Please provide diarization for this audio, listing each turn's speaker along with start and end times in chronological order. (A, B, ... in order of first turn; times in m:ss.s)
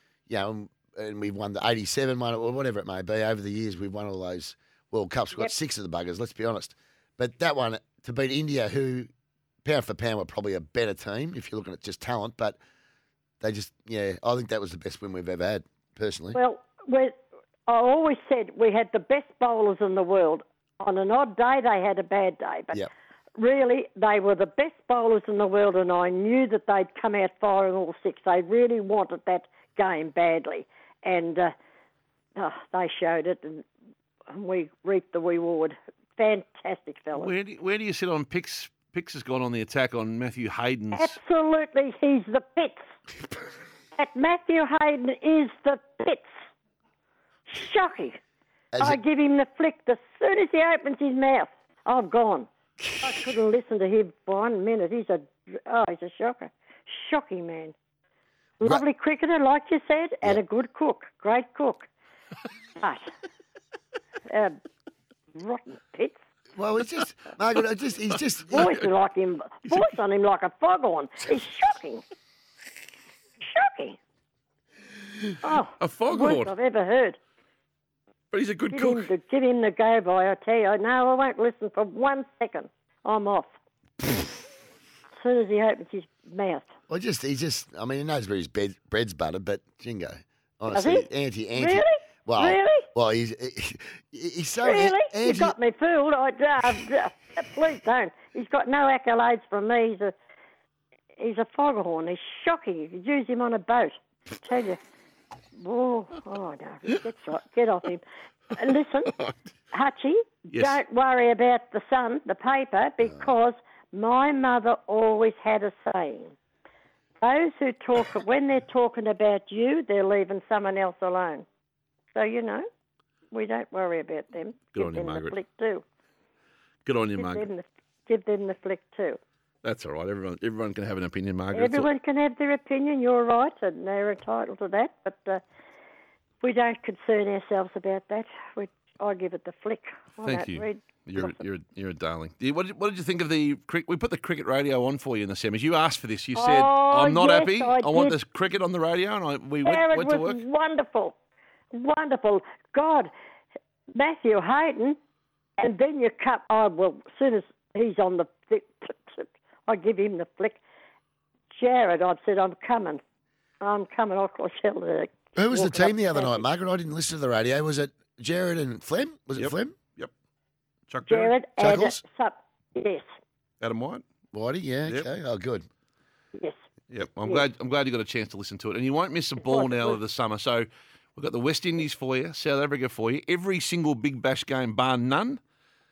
0:00.3-0:09.1 A
0:09.6-0:12.6 A
0:13.4-0:16.4 A
0:16.3-0:17.1 B
0:17.7-0:22.8 B
0:23.4-0:31.5 B
0:32.4-0:33.7 B
0:34.3-0:37.3 B
0:37.1-0:41.2 C
0:40.9-0:42.9 B
0:43.9-0:46.4 B
0:47.5-0:48.2 B
0:48.7-0:49.0 A
0:48.8-0:52.5 B
0:52.8-0:53.1 A
0:53.0-0:57.8 B
0:58.6-1:01.9 B
1:02.8-1:03.1 B
1:04.3-1:04.6 B
1:05.3-1:06.2 B
1:06.6-1:08.8 A
1:08.5-1:12.0 B
1:13.4-1:14.0 B
1:15.4-1:17.2 B
1:15.8-1:16.5 C
1:18.3-1:19.1 C
1:18.7-1:23.5 B
1:25.2-1:26.7 B
1:26.9-1:35.6 A
1:30.7-1:32.9 B
1:34.6-1:40.2 B
1:41.2-1:44.8 B
1:45.6-1:49.1 B
1:49.7-1:56.3 B
1:50.5-1:50.8 C
1:57.2-2:01.4 B
2:02.1-2:02.6 B
2:03.3-2:05.8 B
2:04.8-2:05.4 C
2:06.8-2:07.5 C
2:07.2-2:09.2 B
2:09.6-2:11.9 C
2:11.5-2:15.4 B
2:16.4-2:21.4 B
2:20.2-2:30.4 C
2:26.3-2:28.2 B
2:29.6-2:31.2 B
2:31.7-2:33.1 B
2:33.9-2:35.0 B
2:35.6-2:40.6 B
2:41.5-2:43.0 B
2:43.6-2:46.5 B
2:45.4-2:49.8 A
2:49.4-2:50.1 C
2:50.9-2:51.3 C
2:51.0-2:53.0 B
2:51.6-2:52.0 A
2:53.6-2:54.0 C
2:54.3-2:55.6 A
2:56.9-3:05.4 C
2:59.4-3:00.0 B